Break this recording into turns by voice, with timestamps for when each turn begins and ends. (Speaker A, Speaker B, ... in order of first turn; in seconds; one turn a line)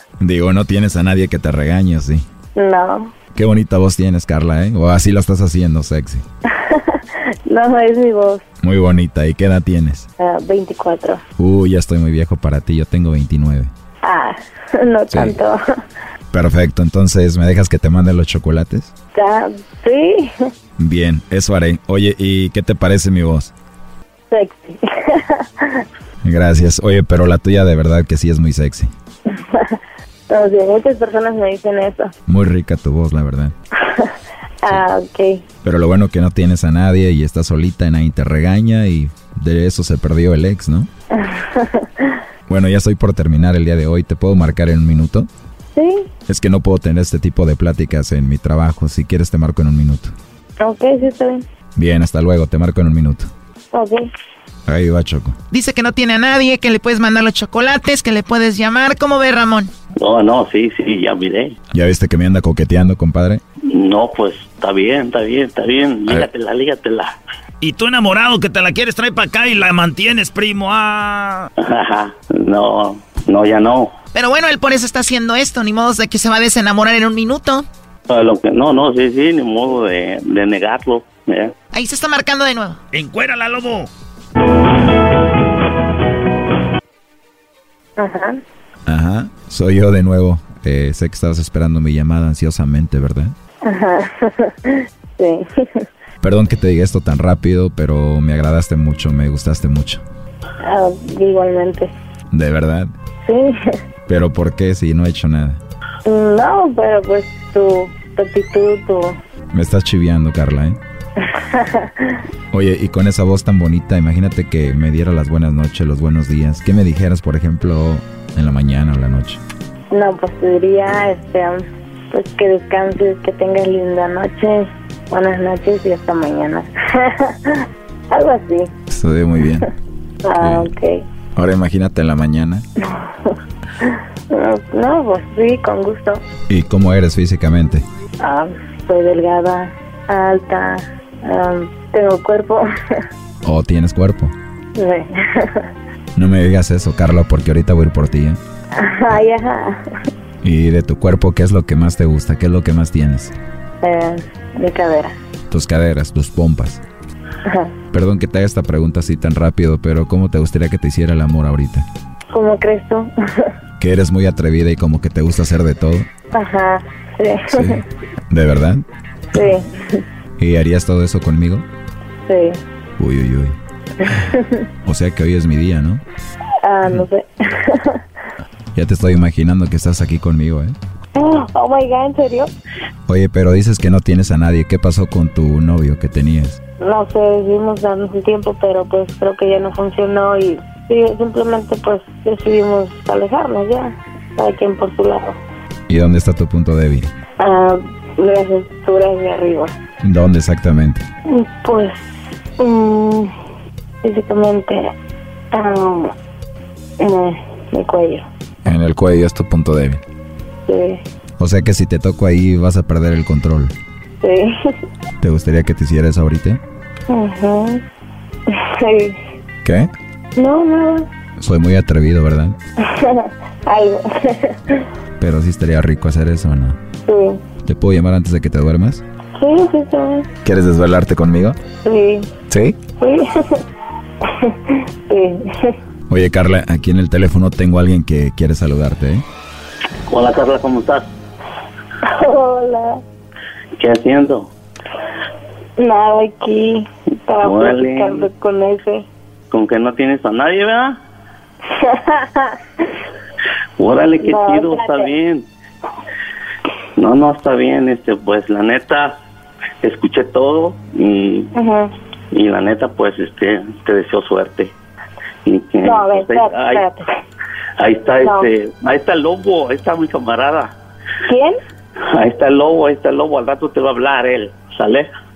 Speaker A: 0.2-2.2
Speaker B: 2.5-3.1
Speaker A: 3.3-6.2
Speaker B: 6.5-8.4
Speaker A: 8.6-10.1
Speaker B: 10.2-11.2
Speaker A: 11.4-13.7
Speaker B: 14.0-15.6
Speaker A: 15.1-15.4
Speaker A: 16.3-18.9
Speaker B: 19.1-20.3
Speaker A: 20.8-23.5
Speaker B: 24.3-25.8
Speaker A: 26.2-28.9
Speaker B: 29.3-29.8
Speaker B: 30.3-32.1
Speaker A: 32.3-33.5
Speaker B: 34.6-35.4
Speaker A: 35.6-40.9
Speaker B: 41.1-42.1
Speaker A: 42.5-45.3
Speaker B: 45.7-46.1
Speaker A: 46.3-50.1
Speaker B: 50.6-51.4
Speaker A: 51.8-53.3
Speaker B: 53.7-54.0
Speaker A: 54.6-55.4
Speaker C: 55.5-59.7
Speaker D: 60.0-61.5
Speaker A: 61.7-63.4
Speaker D: 63.7-67.2
Speaker E: 67.6-71.5
Speaker D: 71.6-73.9
Speaker C: 74.1-77.7
Speaker D: 78.1-81.5
Speaker C: 81.7-82.8
Speaker E: 82.9-83.9
Speaker B: 88.0-88.4
Speaker A: 88.8-93.3
Speaker B: 93.6-95.9
Speaker A: 96.2-100.0
Speaker B: 100.6-101.9
Speaker A: 102.3-102.9
Speaker B: 103.2-103.5
Speaker A: 104.1-105.6
Speaker B: 106.0-109.2
Speaker A: 109.5-110.8
Speaker B: 111.4-112.2
Speaker A: 112.5-119.4
Speaker B: 119.9-128.7
Speaker A: 128.9-129.7
Speaker B: 130.2-131.0
Speaker A: 130.4-130.7
Speaker A: 131.3-132.6
Speaker B: 132.9-133.3
Speaker B: 133.8-136.2
Speaker A: 136.5-137.8
Speaker B: 138.2-143.0
Speaker A: 143.4-144.3
Speaker B: 144.8-145.7
Speaker A: 146.2-148.4
Speaker B: 148.8-149.8
Speaker A: 150.4-153.3
Speaker B: 153.8-155.1
Speaker A: 155.5-156.8
Speaker B: 157.4-157.7
Speaker A: 157.9-161.8
Speaker B: 162.3-163.5
Speaker A: 163.8-166.1
Speaker B: 166.3-167.8
Speaker A: 167.5-168.8
Speaker B: 169.3-170.0
Speaker A: 170.4-171.7
Speaker B: 172.2-172.6
Speaker A: 173.0-173.6
Speaker B: 174.0-174.6
Speaker A: 174.8-176.0
Speaker B: 176.6-178.0
Speaker A: 178.7-180.8
Speaker B: 181.1-182.5
Speaker A: 183.1-186.6
Speaker B: 186.8-195.4
Speaker A: 195.9-197.1
Speaker B: 197.4-199.7
Speaker A: 200.0-201.0
Speaker B: 201.3-203.3
Speaker B: 204.0-204.9
Speaker B: 205.5-206.1
Speaker B: 207.0-208.2
Speaker A: 208.6-210.0
Speaker B: 210.7-211.0
Speaker A: 211.4-213.7
Speaker B: 214.2-214.5
Speaker A: 215.2-216.6
Speaker B: 217.1-217.8
Speaker B: 218.5-219.2
Speaker A: 219.6-219.9
Speaker B: 220.3-221.1
Speaker A: 221.4-222.6
Speaker B: 222.8-224.8
Speaker A: 225.2-226.8
Speaker B: 227.0-227.4
Speaker A: 227.6-229.0
Speaker B: 229.4-230.3
Speaker A: 230.4-231.6
Speaker B: 231.8-232.3
Speaker A: 232.5-232.8
Speaker B: 233.0-233.6
Speaker B: 234.4-235.7
Speaker A: 236.1-239.2
Speaker D: 240.1-241.1
Speaker B: 242.0-243.0
Speaker D: 243.8-244.5
Speaker B: 245.8-249.1
Speaker D: 247.4-248.3
Speaker D: 249.5-251.0
Speaker B: 251.8-252.6
Speaker D: 253.8-255.5
Speaker B: 254.2-255.1
Speaker D: 257.0-259.2
Speaker D: 259.8-261.5
Speaker B: 261.5-261.9
Speaker D: 262.3-264.7
Speaker D: 265.4-266.8
Speaker B: 265.8-267.1
Speaker D: 267.8-270.7
Speaker B: 268.2-268.5
Speaker B: 271.2-271.6
Speaker D: 272.0-275.1